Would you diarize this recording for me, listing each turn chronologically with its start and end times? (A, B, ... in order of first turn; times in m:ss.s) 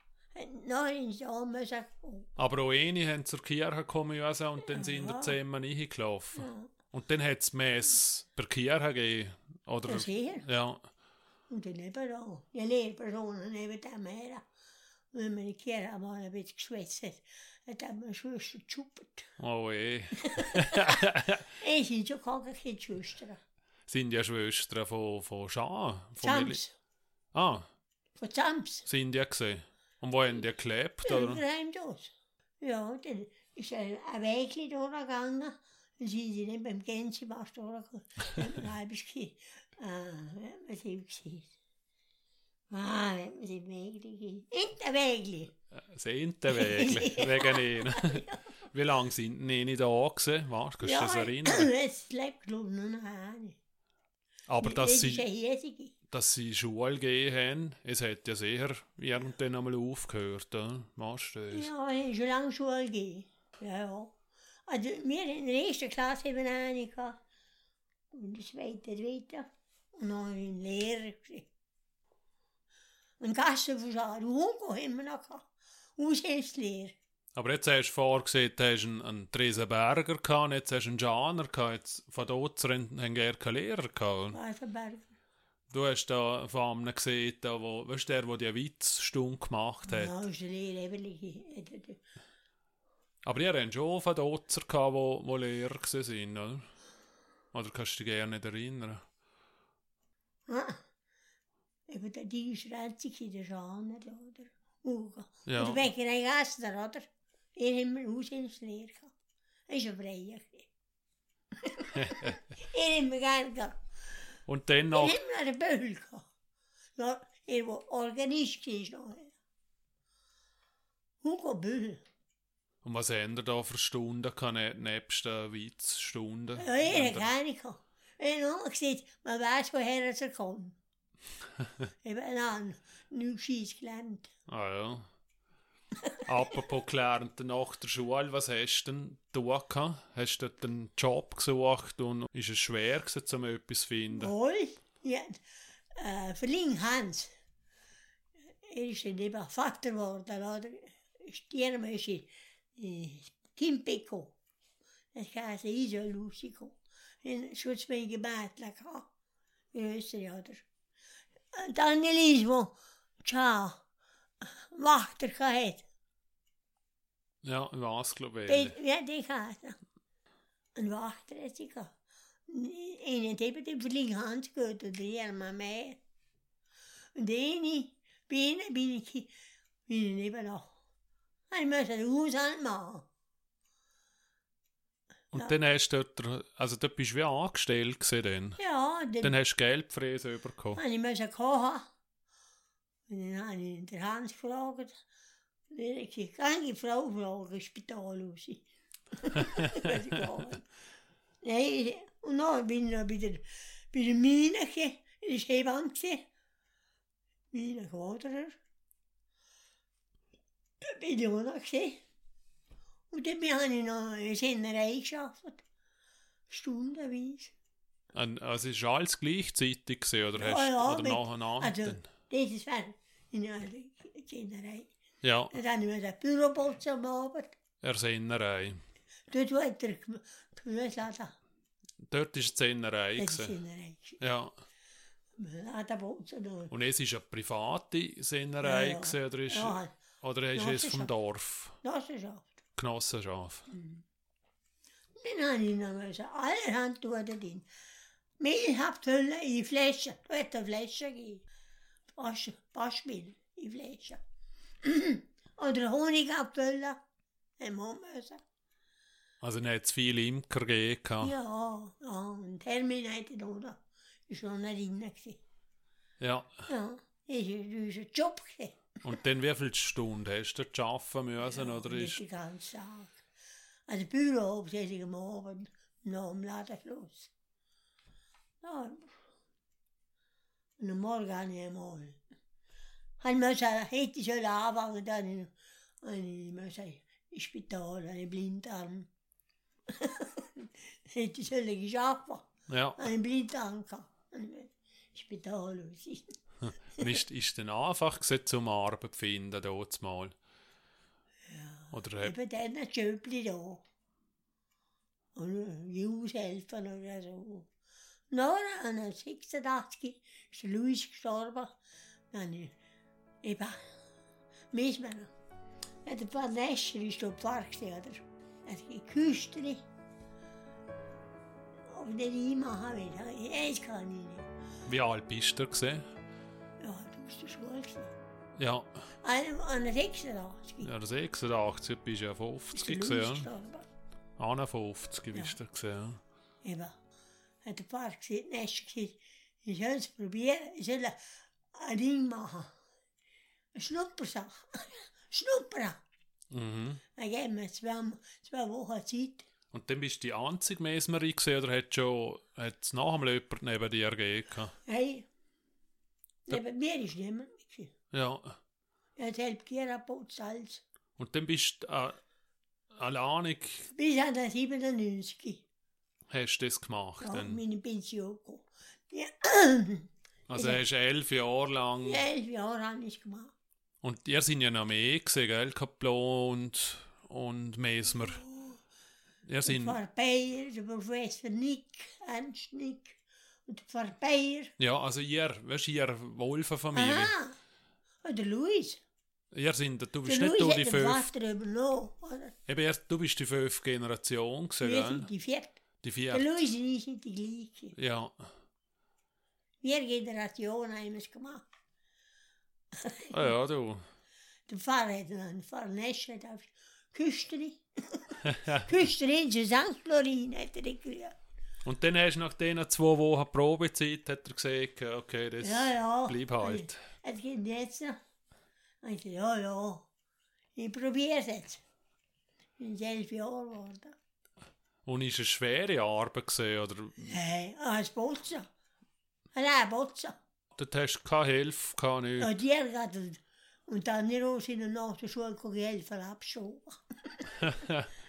0:00.3-0:02.3 A
0:02.4-0:10.8 B
0:04.6-0:05.3 A
0:06.4-0:06.7 A
0:09.9-0:10.5 A
0:11.5-0:14.4 A
0:15.1-0:19.3 A
0:19.4-0:21.4 B
0:20.2-0:23.4 A
0:23.9-0:26.6 B
0:26.2-0:26.8 A
0:27.3-0:27.7 B
0:28.2-0:28.9 A
0:28.8-0:31.4 B
0:31.0-0:41.5 A
0:42.7-0:45.5 A
0:45.7-0:51.7 B
0:46.5-0:48.5 A
0:50.8-0:53.6 A
0:54.5-0:55.2 B
0:54.6-0:55.9 A
0:56.1-1:01.7 B
1:01.5-1:04.2 A
1:04.7-1:07.2 A
1:08.1-1:11.5 A
1:13.2-1:17.0 A
1:17.3-1:24.4 B
1:24.3-1:25.1 A
1:25.7-1:30.1 B
1:29.9-1:32.0 A
1:33.2-1:36.7 B
1:37.5-1:39.0 B
1:40.5-1:40.8 A
1:41.9-1:49.1 A
1:45.4-1:45.8 B
1:49.7-1:50.7 A
1:51.5-1:53.8 A
1:51.9-1:52.4 B
1:54.5-1:55.2 B
1:54.9-1:56.3 A
1:57.0-1:59.3 A
2:01.2-2:02.0 A
2:02.8-2:07.3 B
2:06.6-2:10.8 A
2:12.0-2:14.3 A
2:14.5-2:15.1 B
2:16.2-2:24.3 B
2:24.1-2:25.4 A
2:25.9-2:27.3 A
2:28.6-2:34.4 A
2:35.1-2:39.1 A
2:39.7-2:40.6 A
2:41.5-2:43.8 A
2:44.4-2:45.8 A
2:47.4-2:48.8 B
2:48.5-2:49.8 A
2:50.8-2:51.9 A
2:52.5-2:56.0 A
2:57.1-2:59.3 A
2:59.9-3:00.7 A
3:01.5-3:03.1 A
3:05.3-3:08.6 B
3:08.6-3:09.4 A
3:09.2-3:10.8 B
3:10.7-3:11.9 A
3:13.1-3:15.0 A
3:15.7-3:20.7 A
3:19.6-3:19.9 B
3:21.4-3:26.3 A
3:27.5-3:28.6 A
3:30.8-3:32.0 A
3:33.1-3:35.6 A
3:36.5-3:37.5 A
3:38.1-3:42.0 B
3:40.4-3:44.9 A
3:45.2-3:45.5 B
3:45.5-3:47.5 A
3:47.8-3:48.8 B
3:49.3-3:51.3 A
3:52.0-3:53.6 B
3:53.2-3:54.2 A
3:54.2-3:54.5 B
3:55.4-3:56.7 A
3:56.7-4:01.8 B
3:58.6-3:59.9 A
4:00.5-4:01.1 A
4:01.8-4:02.6 A
4:02.8-4:03.7 B
4:03.7-4:04.0 A
4:05.2-4:07.7 A
4:08.4-4:11.4 A
4:12.1-4:14.2 A
4:14.8-4:17.0 A
4:17.6-4:18.4 A
4:19.4-4:21.3 B
4:21.2-4:25.4 A
4:26.2-4:26.6 B
4:26.7-4:28.9 A
4:29.0-4:32.2 B
4:31.5-4:33.2 A
4:33.9-4:37.3 A
4:38.6-4:39.1 A
4:40.8-4:42.2 A
4:43.2-4:49.1 A
4:49.9-4:56.4 A
4:52.7-4:53.0 B
4:56.6-5:00.4 B
5:01.5-5:03.8 A
5:01.9-5:02.3 B
5:05.3-5:07.7 A
5:08.3-5:11.8 A
5:12.3-5:12.7 A
5:13.4-5:13.8 A
5:14.7-5:15.3 A
5:16.0-5:19.8 A
5:21.9-5:24.5 A
5:24.8-5:26.0 B
5:26.8-5:28.1 A
5:28.6-5:29.0 B
5:29.2-5:30.9 A
5:30.8-5:33.5 B
5:32.7-5:33.9 A
5:34.4-5:36.2 B
5:36.6-5:37.0 A
5:37.6-5:42.7 A
5:43.7-5:46.0 A
5:46.5-5:47.0 B
5:47.1-5:49.4 A
5:49.7-5:54.7 B
5:54.8-5:55.3 A
5:56.4-5:57.9 A
5:58.1-5:58.6 B
5:59.2-6:00.8 A
6:01.2-6:02.2 B
6:02.9-6:03.9 B
6:03.9-6:05.6 A
6:06.3-6:07.6 B
6:07.2-6:10.8 A
6:10.5-6:12.2 B
6:12.0-6:13.5 A
6:14.0-6:18.4 B
6:18.4-6:18.8 A
6:19.4-6:20.0 B
6:19.6-6:24.7 A
6:24.8-6:27.4 B
6:26.9-6:27.6 A
6:28.2-6:29.0 A
6:29.5-6:31.3 B
6:30.2-6:32.5 A
6:32.7-6:35.3 B
6:34.8-6:35.8 A
6:36.0-6:36.6 B
6:36.3-6:37.9 A
6:37.9-6:38.5 B
6:39.8-6:41.6 A
6:42.9-6:43.5 A
6:43.3-6:44.0 B
6:44.7-6:51.4 A
6:48.4-6:48.9 B
6:51.8-6:57.0 B
6:55.6-6:58.2 A
6:59.0-7:00.1 A
7:00.8-7:01.8 A
7:02.8-7:04.2 A
7:05.0-7:07.3 B
7:07.2-7:08.7 A
7:09.5-7:10.4 A
7:10.7-7:12.5 B
7:12.4-7:17.7 A
7:17.6-7:18.1 B